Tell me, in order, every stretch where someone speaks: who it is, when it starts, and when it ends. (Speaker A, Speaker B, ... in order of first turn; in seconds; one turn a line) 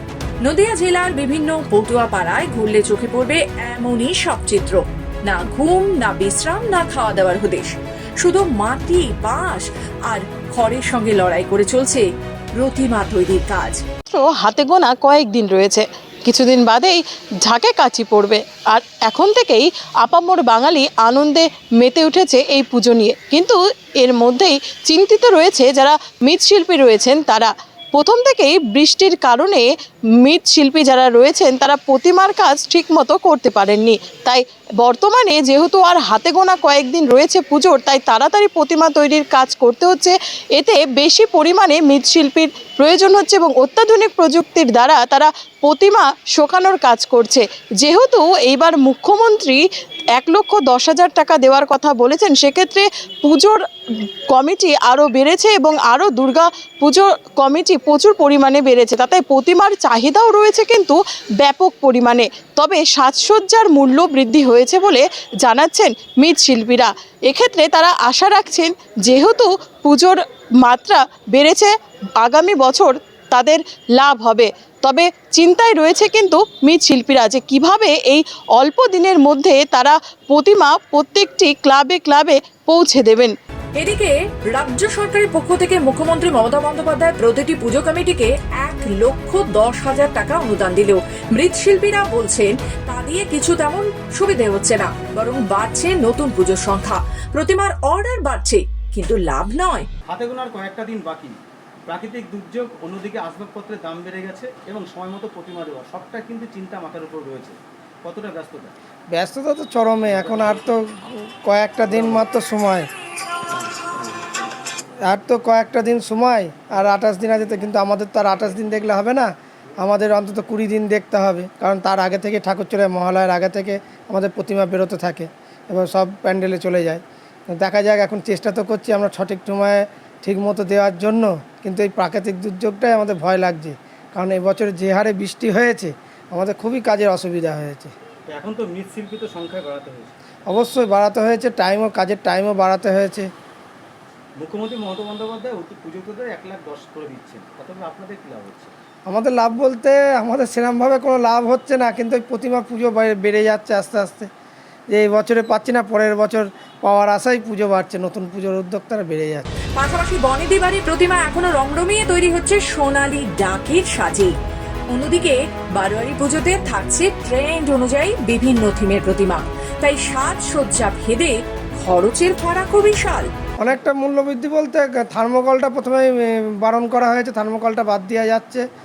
Speaker A: 0.4-12.1
Speaker A: 12.6-13.8
Speaker B: 14.1-29.7
Speaker B: 30.2-53.6
Speaker B: 54.3-83.3
Speaker A: 83.8-99.9
Speaker C: 100.1-108.8
Speaker D: 109.1-112.9
Speaker C: 110.1-110.7
Speaker C: 111.9-112.3
Speaker C: 113.5-114.3
Speaker D: 115.0-119.3
Speaker D: 119.8-137.9
Speaker C: 138.3-140.1
Speaker D: 140.5-143.3
Speaker C: 144.4-148.7
Speaker D: 149.1-154.3
Speaker D: 154.9-159.5
Speaker A: 159.8-164.3
Speaker A: 164.9-173.3
Speaker D: 173.6-178.6